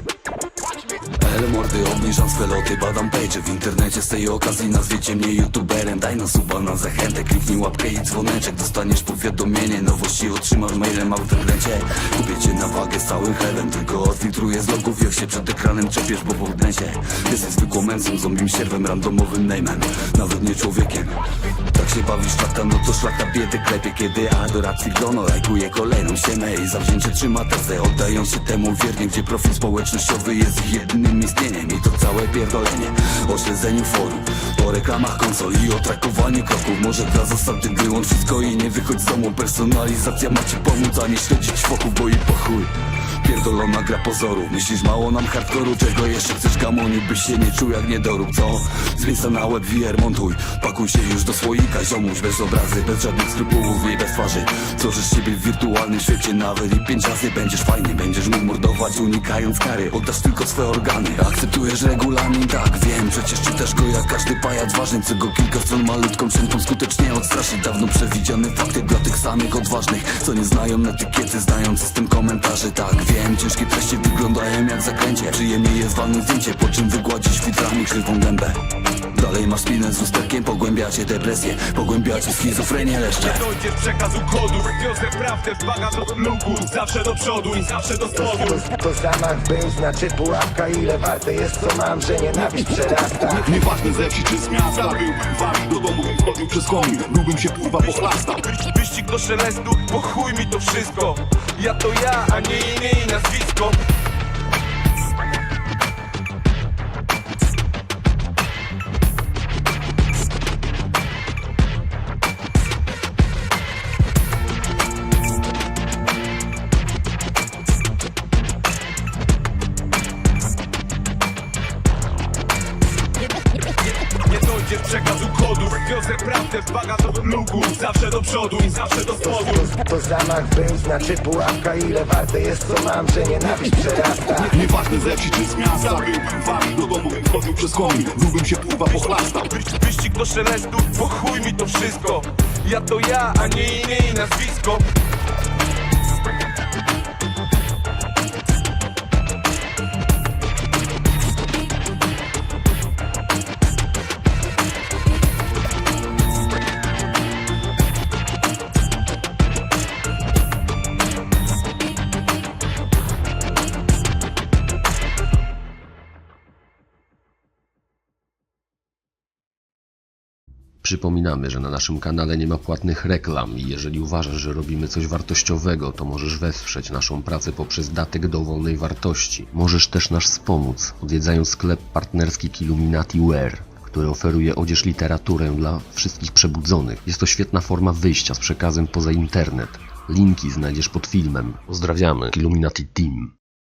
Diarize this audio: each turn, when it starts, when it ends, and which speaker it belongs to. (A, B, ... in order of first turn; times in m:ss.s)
0:01.2-0:21.2 A
0:21.7-1:18.6 A
1:19.1-1:23.4 A
1:23.2-1:28.6 B
1:28.2-1:33.4 C
1:33.3-1:38.4 D
1:38.5-1:43.8 B
2:04.1-2:09.6 B
2:09.2-2:14.5 C
2:14.4-2:19.5 D
2:19.5-2:24.8 B
2:50.8-3:13.3 E